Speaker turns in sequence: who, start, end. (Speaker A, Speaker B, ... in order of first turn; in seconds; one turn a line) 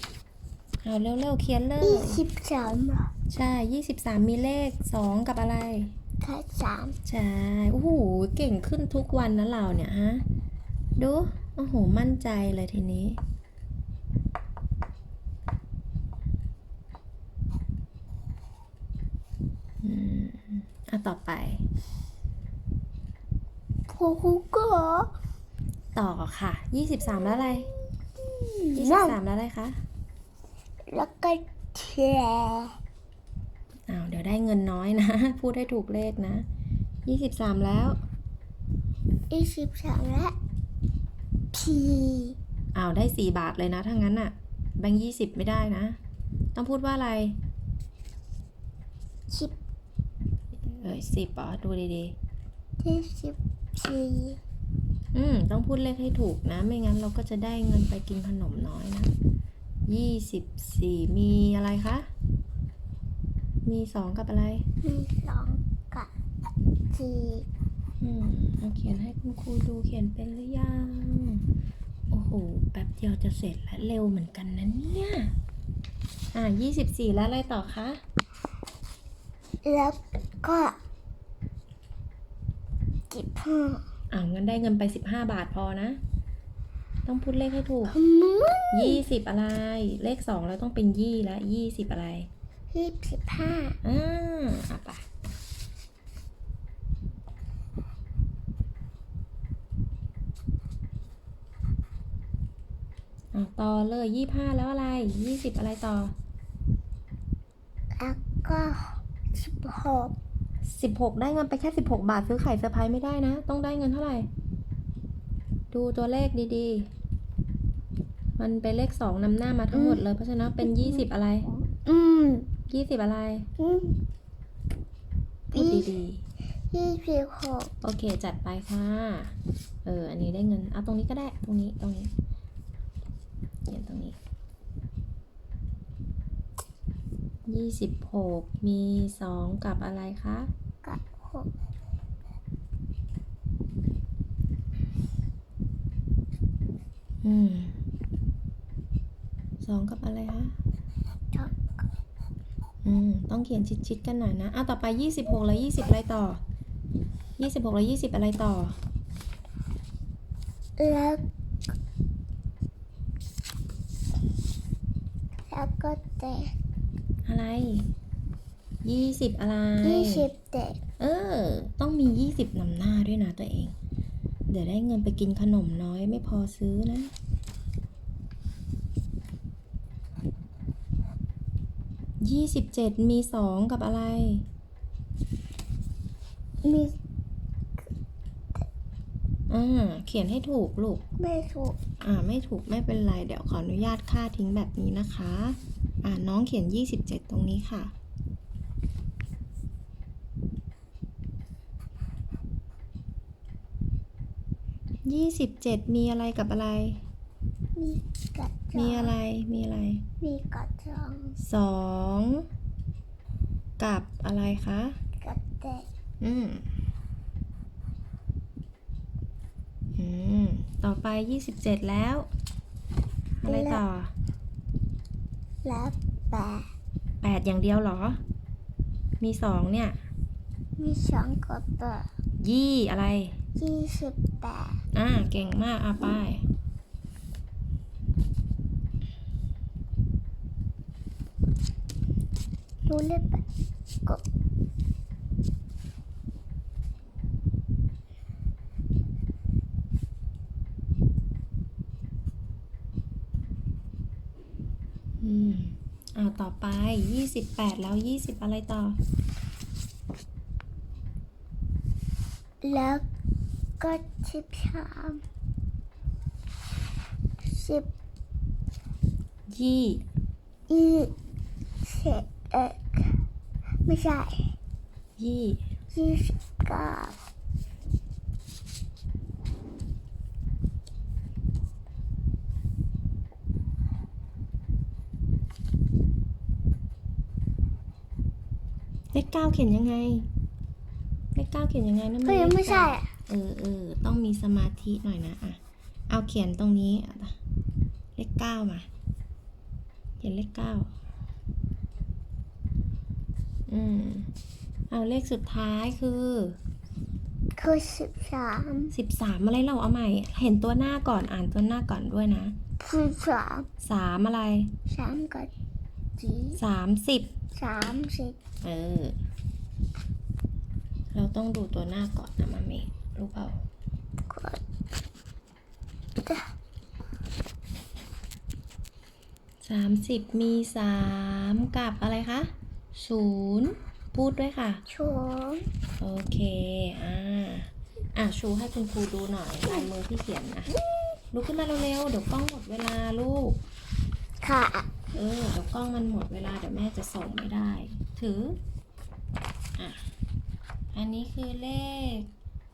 Speaker A: 0.8-2.2
Speaker B: 1.8-3.1
Speaker A: 3.3-5.9
Speaker B: 6.2-7.0
Speaker A: 7.1-10.2
Speaker A: 11.0-13.2
Speaker A: 19.8-21.6
Speaker B: 23.9-25.1
Speaker A: 25.9-27.7
Speaker B: 28.2-29.2
Speaker A: 28.8-29.8
Speaker B: 30.9-32.8
Speaker A: 33.9-36.5
Speaker A: 37.1-38.0
Speaker B: 39.3-40.4
Speaker B: 41.5-42.4
Speaker A: 42.7-46.0
Speaker A: 46.5-47.4
Speaker B: 49.3-49.6
Speaker A: 50.5-52.1
Speaker B: 52.8-54.4
Speaker A: 55.1-59.1
Speaker A: 59.9-62.1
Speaker A: 63.6-64.7
Speaker B: 64.8-66.1
Speaker B: 66.9-67.5
Speaker A: 68.0-71.5
Speaker A: 72.1-75.3
Speaker A: 76.3-78.0
Speaker B: 79.6-80.8
Speaker B: 83.1-83.8
Speaker A: 84.1-86.0
Speaker A: 87.1-88.0
Speaker B: 87.9-89.0
Speaker A: 88.7-92.3
Speaker B: 92.7-93.8
Speaker A: 93.8-95.0
Speaker A: 103.3-106.1
Speaker B: 108.0-110.2
Speaker A: 110.7-114.3
Speaker A: 115.7-116.9
Speaker A: 118.4-121.5
Speaker B: 119.7-120.0
Speaker B: 120.6-122.5
Speaker A: 122.7-123.5
Speaker B: 123.6-124.0
Speaker A: 125.5-126.2
Speaker B: 125.5-125.9
Speaker B: 126.7-127.7
Speaker A: 127.8-132.1
Speaker A: 133.7-134.2
Speaker A: 137.5-140.5
Speaker B: 140.8-141.5
Speaker A: 147.2-147.8
Speaker A: 149.6-150.5
Speaker B: 151.3-151.8
Speaker A: 152.8-156.4
Speaker A: 157.4-158.8
Speaker B: 160.8-161.2
Speaker B: 165.5-166.5
Speaker A: 167.3-167.9
Speaker A: 168.8-170.3
Speaker B: 169.8-170.8
Speaker A: 171.0-173.8
Speaker A: 174.5-177.1
Speaker A: 182.2-184.4
Speaker B: 186.6-187.0
Speaker A: 189.5-191.0
Speaker B: 191.2-191.8
Speaker A: 192.0-197.9
Speaker A: 205.1-207.0
Speaker B: 207.8-209.1
Speaker A: 208.8-210.0
Speaker B: 210.2-211.4
Speaker A: 211.4-212.5
Speaker A: 213.8-215.0
Speaker B: 215.2-215.9
Speaker A: 216.2-216.7
Speaker A: 220.0-222.3
Speaker A: 223.4-224.1
Speaker B: 223.4-223.8
Speaker B: 225.6-226.7
Speaker A: 227.2-228.2
Speaker A: 229.2-230.0
Speaker B: 230.8-232.1
Speaker A: 232.4-233.4
Speaker B: 233.6-234.8
Speaker A: 234.9-236.5
Speaker B: 242.9-243.4
Speaker A: 255.2-259.0
Speaker B: 262.6-263.1
Speaker B: 263.8-265.2
Speaker B: 267.4-267.9
Speaker A: 269.5-270.0
Speaker B: 270.7-271.1
Speaker B: 271.8-273.1
Speaker B: 273.9-274.5
Speaker A: 275.2-275.6
Speaker B: 275.9-277.2
Speaker A: 289.1-290.3
Speaker A: 291.4-297.4
Speaker B: 292.2-293.1
Speaker A: 298.2-298.9
Speaker A: 300.2-300.9
Speaker A: 303.7-304.3
Speaker A: 304.9-306.6
Speaker B: 307.6-308.9
Speaker A: 308.9-312.6
Speaker B: 312.8-313.7
Speaker A: 313.8-314.7
Speaker B: 314.9-315.5
Speaker B: 316.2-316.6
Speaker A: 316.6-317.3
Speaker B: 317.6-318.4
Speaker A: 318.6-319.1
Speaker A: 321.1-323.6
Speaker B: 324.3-324.6
Speaker A: 329.6-334.8
Speaker B: 334.9-335.7
Speaker A: 336.0-340.7
Speaker A: 341.3-343.6
Speaker B: 344.4-344.9
Speaker A: 345.1-348.6
Speaker A: 350.9-352.3